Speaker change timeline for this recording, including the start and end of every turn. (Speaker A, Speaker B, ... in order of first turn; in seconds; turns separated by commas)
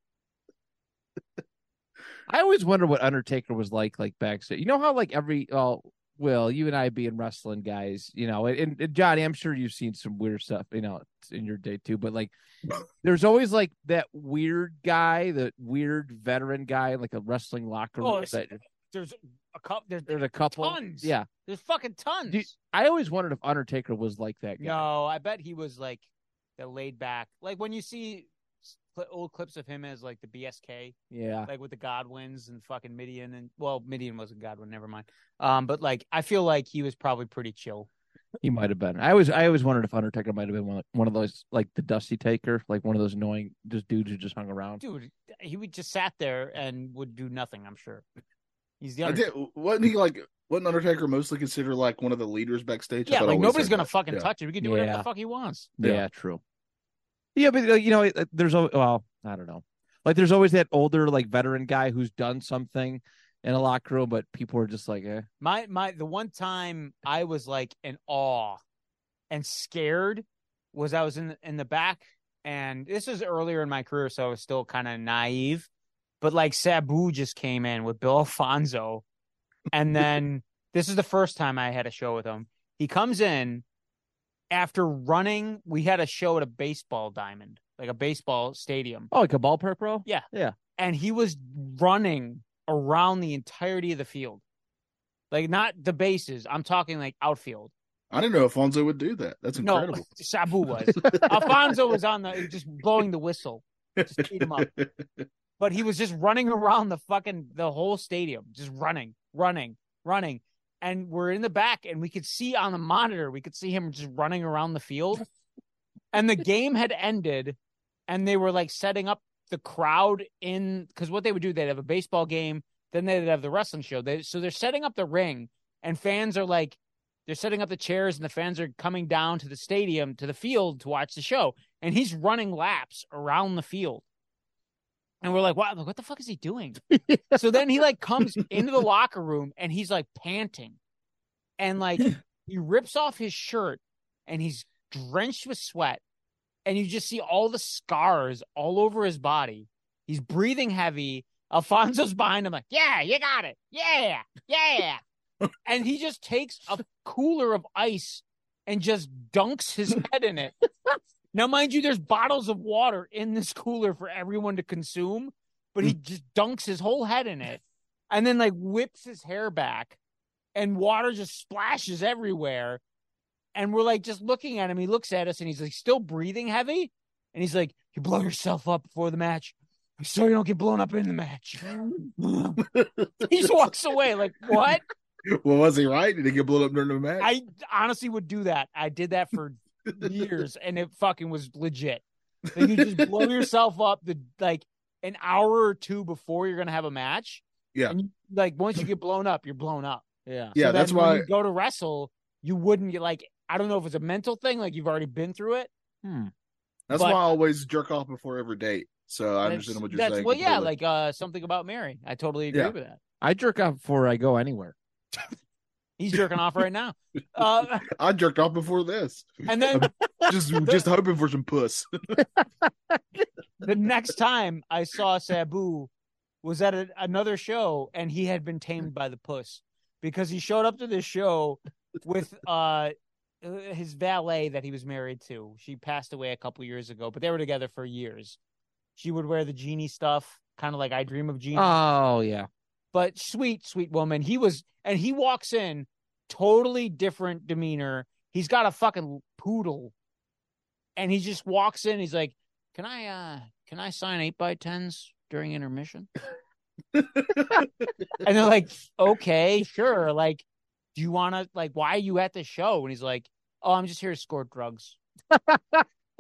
Speaker A: 2.3-12.3, Speaker A: 13.0-18.6, Speaker B: 18.0-22.5, Speaker A: 20.1-21.3, Speaker A: 22.3-24.9, Speaker B: 24.6-26.1, Speaker B: 26.6-30.9, Speaker A: 31.1-31.5, Speaker B: 31.5-37.9, Speaker A: 38.4-44.8, Speaker B: 44.8-48.0, Speaker B: 48.8-49.3, Speaker C: 49.0-54.3, Speaker B: 53.1-55.7, Speaker A: 54.6-55.1, Speaker A: 55.8-56.4, Speaker A: 57.4-65.3, Speaker B: 65.4-68.6, Speaker B: 69.3-75.7, Speaker B: 76.2-79.0, Speaker B: 79.7-83.6, Speaker B: 84.5-89.1, Speaker A: 89.1-90.6, Speaker B: 90.0-94.4, Speaker B: 95.3-97.7, Speaker C: 98.1-100.0, Speaker B: 99.6-104.7, Speaker C: 101.0-101.6, Speaker C: 104.0-105.2, Speaker B: 105.6-115.2, Speaker B: 116.1-117.6, Speaker B: 118.1-134.0, Speaker B: 135.2-136.8, Speaker A: 137.0-137.4, Speaker B: 137.3-140.8, Speaker B: 141.6-146.0, Speaker B: 146.7-155.0, Speaker B: 155.6-160.6, Speaker B: 161.3-170.0, Speaker B: 170.6-172.8, Speaker B: 173.6-182.6, Speaker C: 182.7-183.3, Speaker B: 183.2-184.8, Speaker C: 185.3-187.3, Speaker B: 187.2-192.0, Speaker B: 192.6-205.7, Speaker C: 192.6-193.3, Speaker A: 200.3-200.6, Speaker C: 200.6-201.3, Speaker A: 206.0-206.3, Speaker C: 206.9-210.7, Speaker B: 206.9-207.2, Speaker B: 209.4-213.0, Speaker A: 213.2-214.8, Speaker B: 216.0-217.9, Speaker C: 217.9-222.2, Speaker B: 219.5-219.9, Speaker B: 220.6-220.9, Speaker B: 223.6-225.9, Speaker B: 226.4-238.4, Speaker B: 239.0-241.8, Speaker A: 241.5-242.5, Speaker B: 242.9-249.9, Speaker B: 251.0-256.1, Speaker C: 256.9-257.9, Speaker B: 258.2-265.0, Speaker A: 265.3-265.8